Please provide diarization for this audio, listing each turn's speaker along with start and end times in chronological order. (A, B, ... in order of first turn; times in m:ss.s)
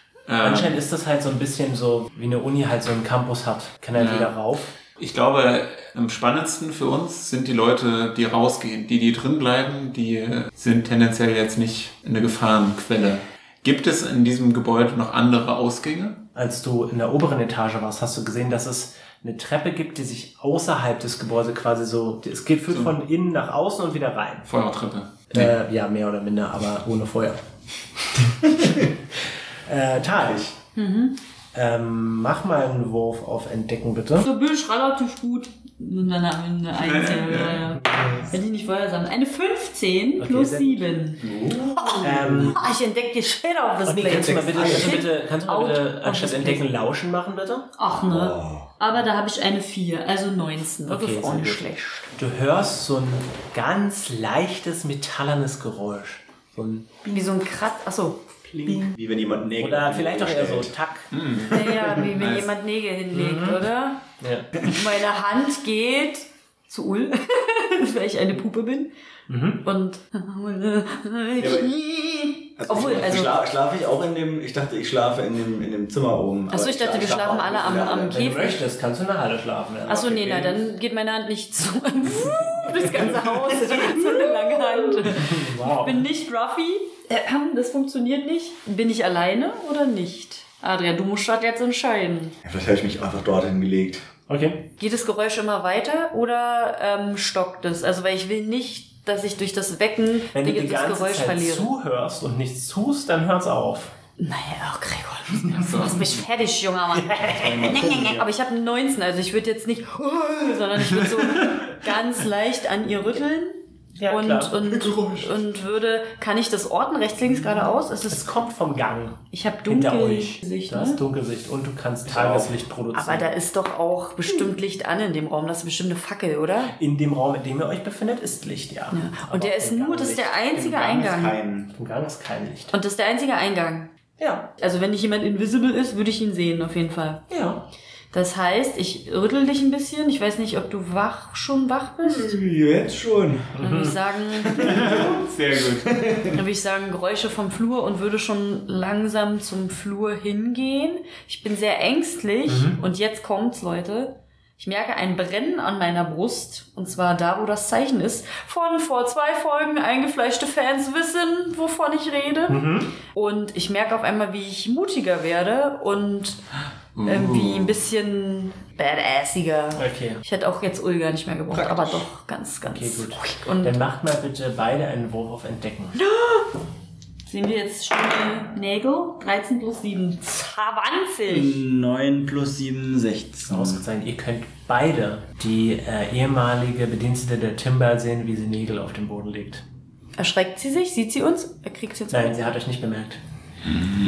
0:00.3-0:00.8 A
0:00.4-0:04.7 B
0:04.0-0:04.3 A
0:05.0-0:16.2 A
0:16.4-0:24.5 B
0:22.7-0:23.0 A
0:24.5-0:25.5 A
0:25.3-0:27.4 B
0:28.1-0:28.9 B
0:28.6-0:28.8 C
0:29.7-0:30.4 B
0:30.2-0:30.5 C
0:30.8-0:31.2 D
0:31.5-0:34.3 B
0:34.2-0:41.2 D
0:36.8-0:37.8 A
0:37.8-0:38.3 B
0:40.2-0:40.9 B
0:41.2-0:42.6 C
0:41.8-0:46.8 D
0:42.0-0:42.6 B
0:43.8-0:47.7 B
0:44.1-0:45.0 C
0:47.8-0:52.0 D
0:47.9-0:48.7 C
0:50.9-0:56.9 B
0:57.0-0:58.3 D
0:58.6-1:00.7 C
0:58.6-0:58.9 B
0:59.6-1:01.1 B
1:01.1-1:02.5 A
1:01.4-1:04.0 D
1:03.1-1:03.6 B
1:04.2-1:04.5 B
1:04.6-1:08.9 D
1:09.3-1:09.6 B
1:09.6-1:13.4 D
1:11.4-1:11.8 C
1:12.6-1:18.3 C
1:16.5-1:18.6 D
1:18.1-1:20.6 B
1:19.8-1:20.5 C
1:19.9-1:32.4 D
1:25.0-1:26.1 B
1:32.4-1:34.1 C
1:34.3-1:34.7 B
1:34.8-1:41.7 D
1:40.3-1:43.9 B
1:44.2-1:58.2 D
1:45.5-1:46.2 A
1:46.9-1:47.8 B
1:47.3-1:48.3 C
1:54.0-1:54.7 B
1:54.8-1:55.2 A
1:58.1-2:03.4 B
1:59.3-2:01.0 D
2:02.1-2:02.5 C
2:02.9-2:06.7 D
2:06.7-2:10.4 B
2:08.9-2:11.4 D
2:10.5-2:11.7 C
2:11.7-2:12.7 B
2:12.7-2:13.9 D
2:14.2-2:14.5 B
2:14.6-2:17.2 D
2:17.3-2:17.6 B
2:18.1-2:22.4 D
2:22.0-2:23.6 C
2:23.6-2:24.0 B
2:23.6-2:25.1 D
2:24.4-2:26.4 C
2:24.5-2:26.0 A
2:26.3-2:46.4 D
2:32.5-2:32.8 B
2:42.5-2:43.0 B
2:47.0-2:47.8 A
2:47.0-2:53.8 D
2:49.8-2:50.2 B
2:51.5-2:52.1 C
2:52.7-2:56.0 B
2:56.0-2:56.5 D
2:57.3-3:01.6 D
3:01.3-3:03.8 C
3:03.5-3:09.6 B
3:10.2-3:12.5 D
3:12.1-3:13.2 B